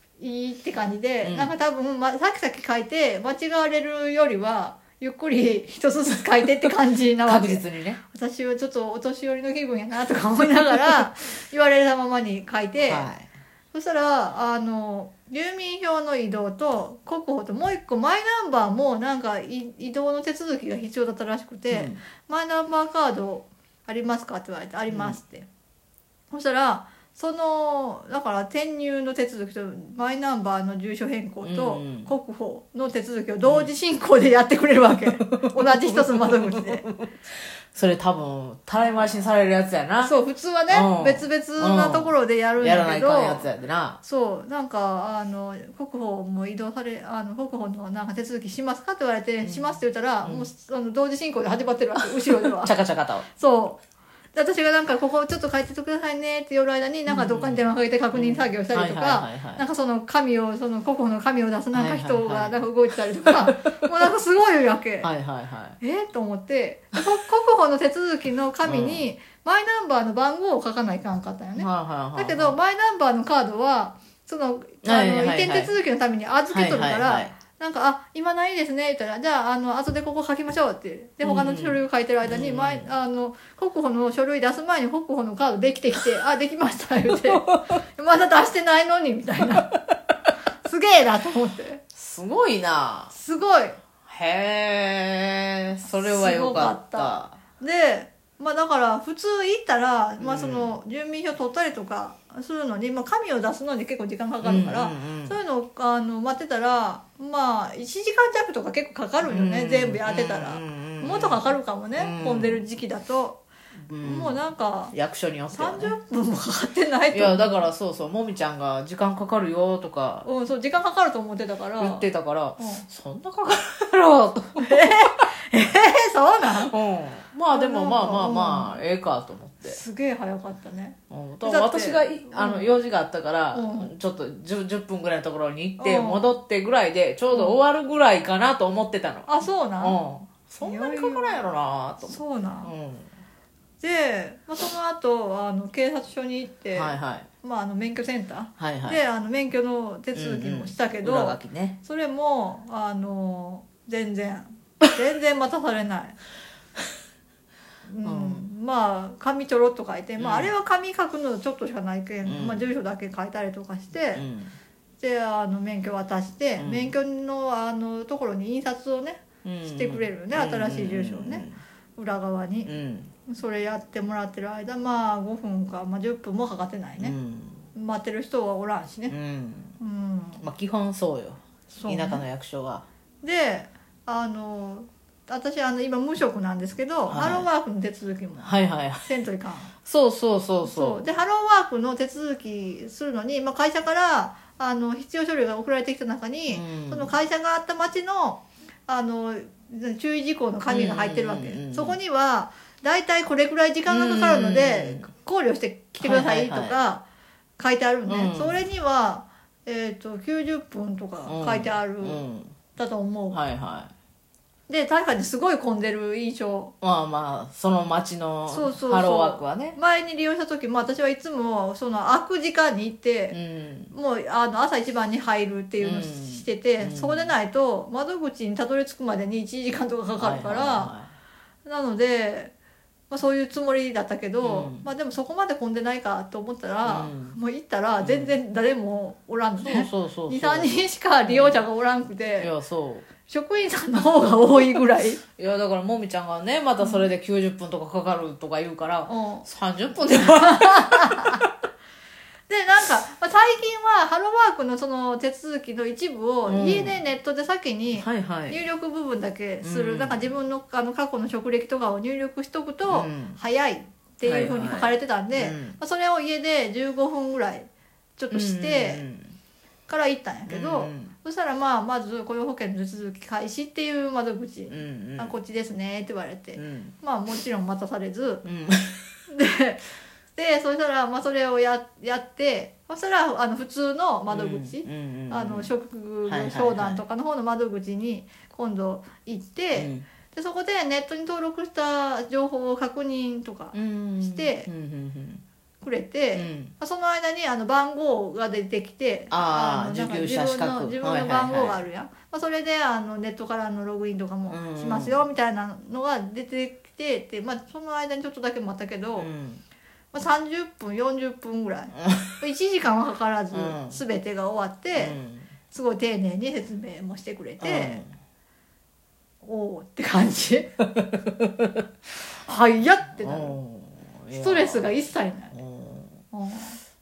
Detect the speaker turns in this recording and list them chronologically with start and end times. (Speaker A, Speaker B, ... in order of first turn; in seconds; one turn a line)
Speaker A: 0.2-13.1
Speaker B: 1.2-1.5
Speaker B: 7.2-8.0
Speaker B: 12.8-13.3
Speaker A: 13.7-25.5
Speaker B: 21.7-22.0
Speaker B: 24.9-25.2
Speaker A: 26.3-36.9
Speaker B: 31.4-32.1
Speaker B: 33.4-33.7
Speaker B: 35.3-36.9
Speaker B: 37.7-40.1
Speaker A: 40.0-43.5
Speaker B: 40.7-44.0
Speaker A: 44.0-52.7
Speaker B: 49.4-50.5
Speaker B: 52.4-53.3
Speaker A: 53.4-53.8
Speaker A: 54.3-65.1
Speaker B: 57.1-59.6
Speaker B: 61.7-62.6
Speaker B: 63.3-63.9
Speaker B: 65.0-65.8
Speaker A: 65.8-89.7
Speaker B: 68.6-69.1
Speaker B: 71.6-72.6
Speaker B: 74.8-75.7
Speaker B: 76.5-77.3
Speaker B: 81.2-82.9
Speaker A: 90.7-91.8
Speaker B: 92.0-93.1
Speaker A: 93.1-93.8
Speaker B: 94.0-97.4
Speaker A: 95.9-113.4
Speaker B: 100.2-100.8
Speaker B: 104.4-105.4
Speaker B: 109.2-112.6
Speaker B: 113.9-114.4
Speaker A: 114.0-114.9
Speaker B: 114.9-115.9
Speaker A: 115.5-117.7
Speaker B: 117.1-120.3
Speaker A: 120.2-122.0
Speaker B: 121.8-125.0
Speaker A: 122.6-122.9
Speaker A: 124.6-126.8
Speaker B: 126.6-129.8
Speaker A: 127.5-128.8
Speaker A: 129.6-132.8
Speaker B: 131.1-143.1
Speaker A: 133.5-133.9
Speaker A: 135.8-136.3
Speaker A: 137.3-137.6
Speaker A: 139.3-140.0
Speaker A: 140.6-141.4
Speaker A: 142.1-142.7
Speaker A: 143.8-156.2
Speaker B: 146.7-147.3
Speaker B: 148.6-149.0
Speaker B: 150.2-151.8
Speaker A: 157.9-164.2
Speaker B: 158.0-158.4
Speaker B: 160.2-160.5
Speaker B: 162.2-162.7
Speaker B: 164.2-164.5
Speaker A: 165.0-172.7
Speaker B: 166.6-166.9
Speaker B: 169.4-171.6
Speaker B: 172.7-173.1
Speaker A: 173.3-177.2
Speaker B: 177.0-177.7
Speaker A: 177.7-179.2
Speaker B: 179.1-179.8
Speaker A: 179.8-180.4
Speaker B: 180.4-182.9
Speaker A: 181.7-182.2
Speaker A: 183.2-189.7
Speaker B: 187.1-187.5
Speaker B: 188.4-189.1
Speaker B: 189.8-191.1
Speaker A: 190.6-207.0
Speaker B: 196.5-197.1
Speaker B: 200.7-202.0
Speaker B: 203.9-205.1
Speaker B: 206.0-206.8
Speaker A: 207.6-212.2
Speaker B: 208.1-208.6
Speaker B: 211.3-212.6
Speaker A: 212.8-213.4
Speaker B: 213.3-213.9
Speaker A: 214.7-216.7
Speaker B: 216.8-219.8
Speaker A: 218.5-223.4
Speaker B: 223.3-223.9
Speaker A: 223.9-230.9
Speaker B: 225.8-227.3
Speaker B: 230.2-231.1
Speaker A: 231.7-232.5
Speaker A: 233.1-242.5
Speaker B: 234.4-234.9
Speaker B: 236.8-237.4
Speaker B: 238.0-238.3
Speaker B: 239.6-241.6
Speaker B: 242.4-243.1
Speaker A: 243.3-245.2
Speaker B: 245.4-251.5
Speaker A: 246.8-247.1
Speaker A: 249.1-249.5
Speaker A: 250.2-251.4
Speaker A: 252.5-269.0
Speaker B: 256.5-257.0
Speaker B: 257.9-258.6
Speaker B: 259.6-260.3
Speaker B: 262.9-263.4
Speaker B: 264.2-265.8
Speaker B: 268.3-269.4
Speaker A: 269.9-278.4
Speaker B: 270.5-271.1
Speaker B: 274.7-275.3
Speaker B: 276.6-276.9
Speaker B: 278.4-279.0
Speaker A: 279.3-279.8
Speaker A: 280.4-294.7
Speaker B: 284.3-285.7
Speaker B: 286.3-287.0
Speaker B: 289.8-290.1
Speaker B: 293.7-295.4
Speaker A: 295.8-309.3
Speaker B: 296.3-296.7
Speaker B: 299.3-301.8
Speaker B: 304.5-305.2
Speaker B: 309.2-309.6
Speaker A: 310.1-315.2
Speaker B: 312.0-312.4
Speaker B: 313.5-314.0
Speaker B: 314.9-315.5
Speaker A: 315.7-318.0
Speaker B: 317.6-318.1
Speaker A: 319.4-320.7
Speaker B: 321.0-321.7
Speaker A: 322.4-323.6
Speaker B: 323.2-325.0
Speaker A: 324.3-325.6
Speaker B: 325.5-326.2
Speaker A: 326.3-326.8